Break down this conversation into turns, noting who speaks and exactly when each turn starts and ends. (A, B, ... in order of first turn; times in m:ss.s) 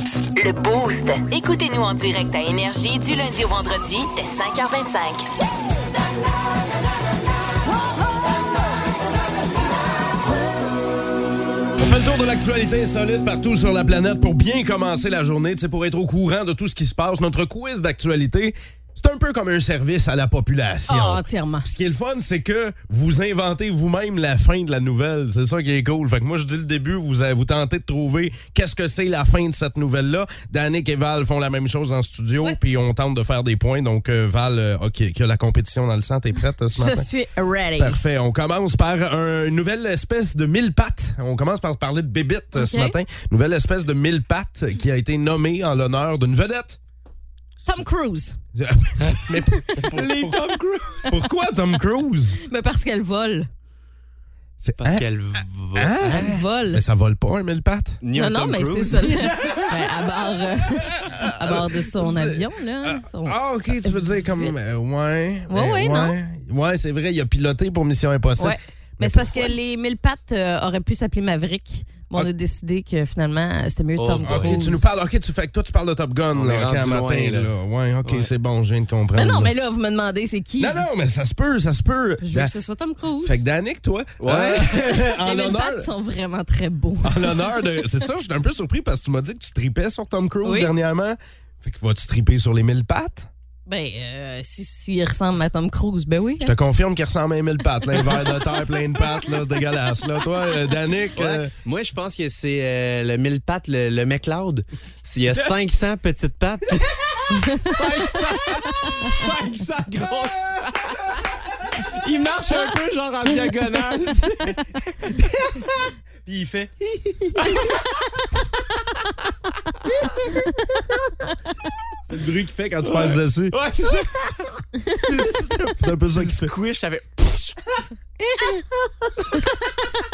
0:00.4-0:05.3 A
0:11.8-0:37.1 B
0:20.9-0:21.7 C
0:36.7-0:38.0 C
0:37.8-0:46.8 B
0:42.5-0:43.0 C
0:47.6-0:48.4 C
0:48.6-0:50.5 B
0:49.1-0:51.1 D
0:51.1-0:52.4 B
0:52.5-0:53.5 C
0:54.6-0:55.1 B
0:54.8-0:56.4 D
0:55.7-0:58.0 B
0:56.0-0:56.8 C
0:58.0-0:59.6 D
0:58.1-1:04.6 C
0:59.2-0:59.8 B
1:00.8-1:09.6 B
1:05.5-1:06.2 C
1:08.4-1:14.9 C
1:14.0-1:14.9 D
1:14.2-1:19.5 B
1:16.4-1:17.5 D
1:18.0-1:18.3 D
1:19.2-1:20.9 C
1:20.6-1:22.5 B
1:22.2-1:23.4 C
1:23.2-1:25.9 B
1:24.2-1:24.7 D
1:24.3-1:27.6 C
1:27.0-1:33.3 B
1:30.4-1:30.7 C
1:33.7-1:36.5 C
1:36.4-1:41.5 B
1:41.2-1:51.1 D
1:47.4-1:47.7 C
1:50.0-1:51.2 B
1:51.8-1:55.2 D
1:55.2-1:55.7 B
1:56.2-1:57.6 B
1:57.4-1:57.9 D
2:02.1-2:03.6 B
2:02.8-2:07.6 D
2:05.8-2:06.5 B